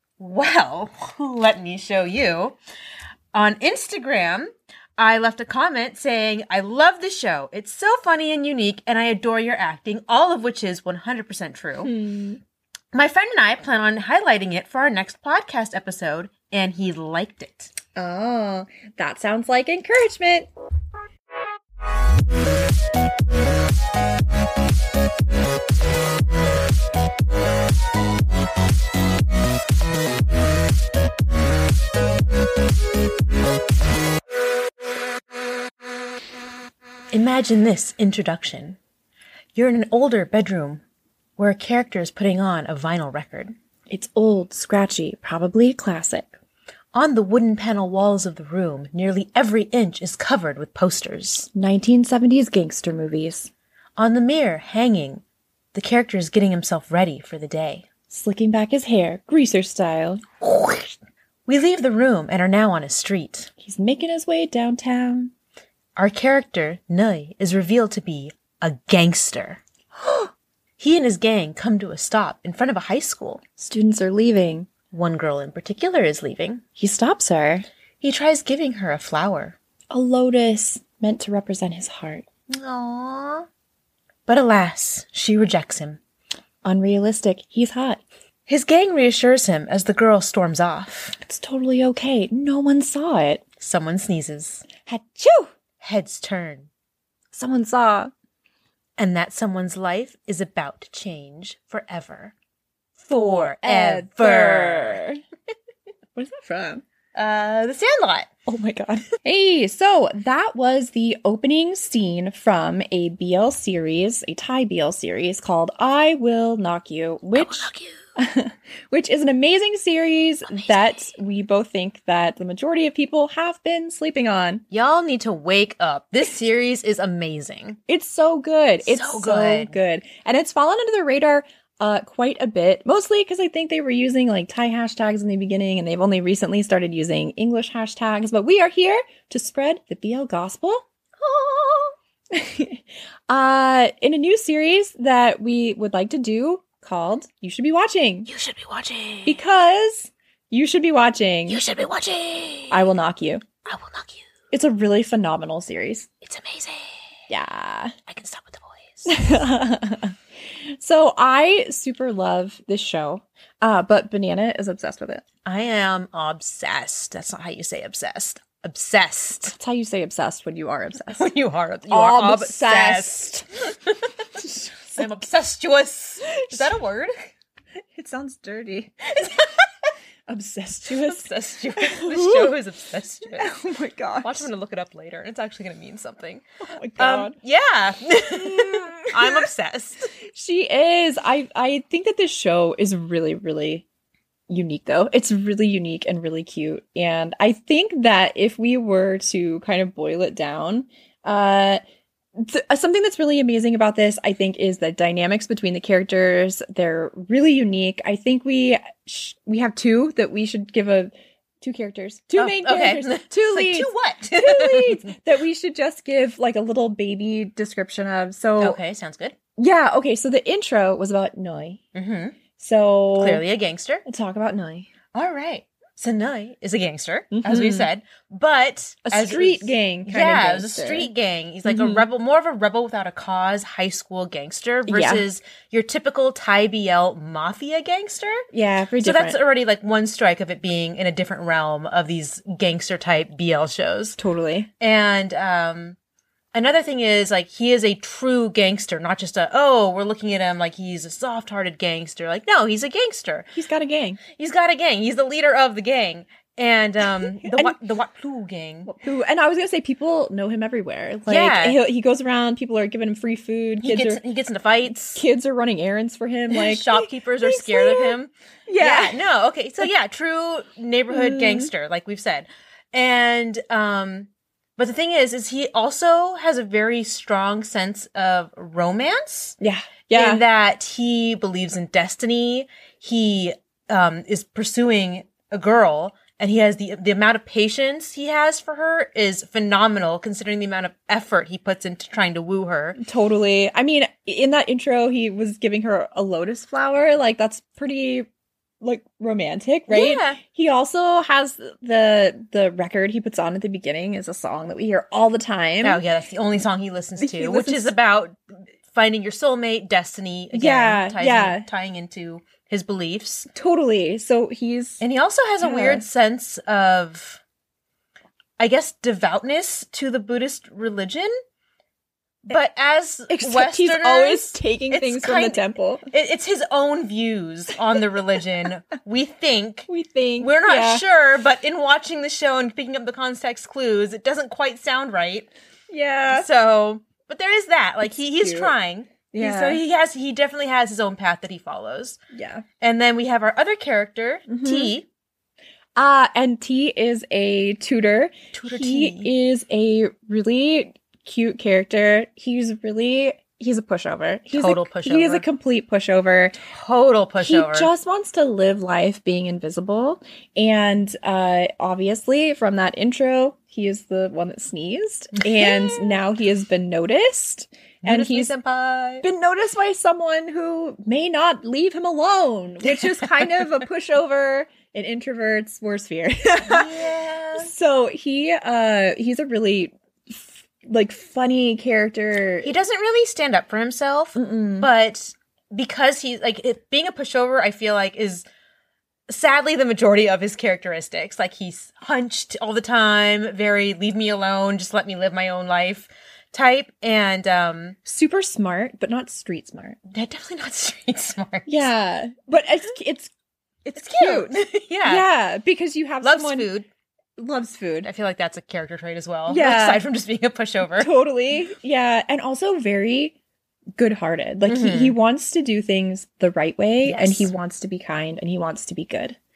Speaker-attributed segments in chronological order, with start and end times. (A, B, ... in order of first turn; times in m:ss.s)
0:00.2-0:02.6 A
0:03.3-0:11.9 A
0:11.8-0:12.4 B
0:12.9-0:17.7 A
0:17.9-0:20.5 B
0:37.1-0:38.8 A
0:39.5-0:40.8 A
0:41.4-0:43.5 A
0:43.9-0:46.3 B
0:46.9-0:51.5 A
0:51.5-0:53.5 B
0:54.0-0:55.2 A
0:55.7-0:57.8 A
0:58.1-1:00.2 B
1:00.4-1:00.9 A
1:01.5-1:03.5 A
1:03.6-1:05.3 B
1:06.0-1:09.6 A
1:10.8-1:13.4 A
1:13.6-1:14.7 B
1:14.9-1:16.6 A
1:16.8-1:17.7 B
1:18.0-1:19.6 A
1:19.9-1:22.2 B
1:22.5-1:23.5 A
1:24.3-1:26.0 A
1:26.6-1:28.0 B
1:28.5-1:31.2 A
1:31.2-1:33.4 B
1:33.6-1:34.7 A
1:34.8-1:35.5 B
1:35.8-1:36.7 A
1:37.3-1:38.1 B
1:39.0-1:42.3 A
1:43.0-1:45.0 A
1:43.1-1:45.2 B
1:46.2-1:46.8 B
1:47.1-1:48.3 A
1:48.5-2:04.6 B
1:57.3-1:58.0 A
2:00.5-2:01.0 A
2:04.7-2:07.8 A
2:07.9-2:28.3 B
2:08.8-2:09.7 A
2:28.3-2:29.4 A
2:29.2-2:31.6 B
2:31.5-2:32.9 A
2:32.7-2:33.4 B
2:33.6-2:34.2 A
2:34.5-2:36.1 B
2:36.2-2:36.9 A
2:37.3-2:37.9 B
2:38.1-2:39.2 A
2:39.0-2:45.2 B
2:45.4-2:49.5 A
2:49.5-2:51.3 B
2:51.1-2:53.3 A
2:51.9-2:53.5 B
2:54.3-2:55.1 B
2:54.9-2:57.3 A
2:56.4-2:56.7 B
2:57.9-2:59.4 B
3:00.3-3:02.5 B
3:00.9-3:03.5 A
3:03.4-3:04.5 B
3:04.2-3:06.4 A
3:06.6-3:07.3 B
3:07.0-3:10.1 A
3:08.4-3:09.5 B
3:10.2-3:13.8 B
3:14.5-3:21.8 B
3:22.4-3:38.8 B
3:32.4-3:35.2 A
3:38.6-3:39.4 A
3:39.6-3:41.8 B
3:41.9-3:42.4 A
3:42.6-3:43.4 B
3:43.2-3:44.0 A
3:44.0-3:44.9 B
3:45.1-3:58.5 A
3:47.3-3:47.9 B
3:49.0-3:51.1 B
3:51.6-3:52.0 B
3:54.9-3:55.2 B
3:58.5-3:59.4 B
3:59.0-4:04.2 A
4:04.2-4:04.7 B
4:04.8-4:06.0 A
4:06.5-4:13.5 A
4:13.5-4:14.2 B
4:14.3-4:18.9 A
4:17.4-4:17.8 B
4:18.8-4:24.2 B
4:21.3-4:21.8 A
4:23.8-4:25.2 A
4:24.8-4:29.2 B
4:26.5-4:39.6 A
4:31.1-4:31.7 B
4:39.6-4:40.4 B
4:40.1-4:53.0 A
4:53.0-4:58.3 B
4:58.8-5:06.0 B
4:59.9-5:00.4 A
5:05.8-5:08.4 A
5:07.2-5:07.9 B
5:08.9-5:13.5 A
5:10.5-5:11.7 B
5:13.5-5:15.0 B
5:15.0-5:17.4 A
5:15.6-5:16.0 B
5:18.6-5:21.3 A
5:22.5-5:29.9 A
5:23.3-5:26.1 B
5:29.9-5:31.0 B
5:30.4-5:35.5 A
5:35.9-5:36.5 B
5:36.3-5:42.2 A
5:38.0-5:38.7 B
5:39.3-5:39.8 B
5:42.3-5:42.6 B
5:42.8-5:45.1 A
5:44.5-5:44.9 B
5:45.9-5:56.6 B
5:48.5-5:49.3 A
5:54.5-5:55.4 A
5:56.7-5:57.9 A
5:57.4-6:08.5 B
6:05.4-6:06.1 A
6:08.0-6:09.3 A
6:09.2-6:16.9 B
6:12.9-6:13.6 A
6:16.6-6:17.7 A
6:17.6-6:22.7 B
6:22.6-6:28.4 A
6:24.3-6:24.9 B
6:29.3-6:38.0 A
6:38.0-6:40.0 B
6:40.1-6:41.9 A
6:41.6-6:43.3 B
6:43.8-6:46.7 B
6:44.0-6:45.2 A
6:46.2-6:46.9 A
6:47.4-6:48.1 B
6:48.0-6:51.1 A
6:49.5-6:50.0 B
6:51.0-6:53.4 B
6:54.0-6:59.4 B
6:54.6-6:55.2 A
6:57.0-6:57.5 A